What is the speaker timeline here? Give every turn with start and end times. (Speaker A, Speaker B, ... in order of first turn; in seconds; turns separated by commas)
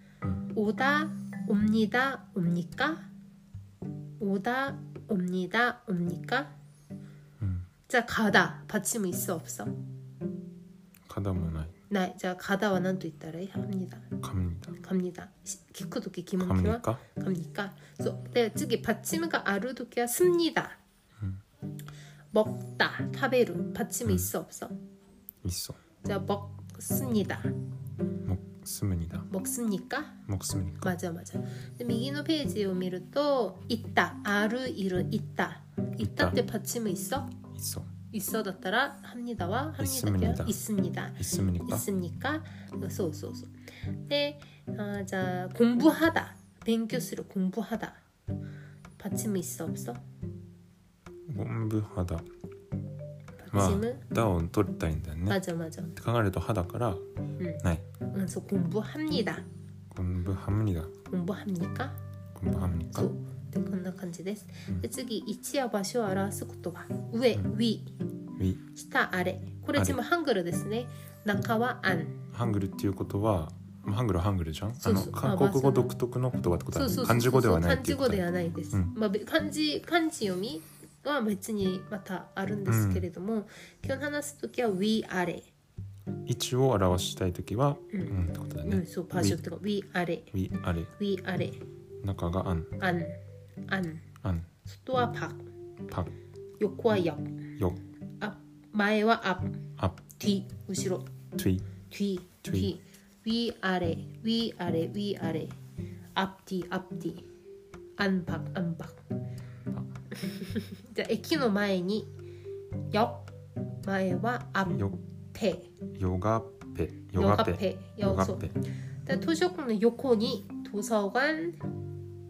Speaker A: 0.5-3.1, Speaker A: 4.2-6.5, Speaker B: 7.4-7.7, Speaker A: 7.9-9.7, Speaker B: 11.1-11.7, Speaker A: 11.9-14.1, Speaker B: 14.2-14.8, Speaker A: 14.8-20.8, Speaker B: 16.4-17.0, Speaker A: 22.3-24.7, Speaker B: 24.1-24.3, Speaker B: 25.4-25.8, Speaker A: 26.0-27.5, Speaker B: 28.2-29.3, Speaker A: 29.3-30.2, Speaker B: 30.3-30.9, Speaker A: 30.8-37.3, Speaker B: 36.0-36.4, Speaker B: 37.5-37.9, Speaker A: 38.1-43.5, Speaker B: 39.8-40.6, Speaker B: 41.2-41.9, Speaker A: 44.1-48.0, Speaker A: 49.0-50.0, Speaker B: 51.2-52.3, Speaker A: 53.4-54.0, Speaker B: 53.5-55.4, Speaker A: 55.3-55.9, Speaker B: 55.9-57.0, Speaker A: 57.4-59.5, Speaker B: 57.6-57.9, Speaker B: 59.9-60.9, Speaker A: 61.1-62.0, Speaker B: 62.3-63.1, Speaker A: 62.9-67.9, Speaker B: 68.4-68.6, Speaker A: 68.7-72.2, Speaker B: 72.3-78.9, Speaker A: 74.8-75.9, Speaker A: 76.7-85.5, Speaker B: 82.7-83.1, Speaker B: 86.2-89.4, Speaker A: 87.9-90.3, Speaker B: 90.3-90.9, Speaker A: 91.0-91.6, Speaker B: 92.0-92.8, Speaker A: 92.8-93.2, Speaker A: 93.7-94.0, Speaker B: 94.2-94.5, Speaker A: 94.7-95.4, Speaker A: 96.6-97.3, Speaker A: 98.2-99.6, Speaker A: 100.1-101.0, Speaker B: 101.4-101.7, Speaker A: 101.9-105.6, Speaker B: 102.4-102.7, Speaker A: 106.1-107.2, Speaker A: 108.0-109.0, Speaker A: 110.1-112.1, Speaker A: 112.9-113.3, Speaker A: 113.8-115.7, Speaker B: 114.7-115.0, Speaker B: 115.9-118.6, Speaker A: 117.2-118.5, Speaker A: 119.0-121.6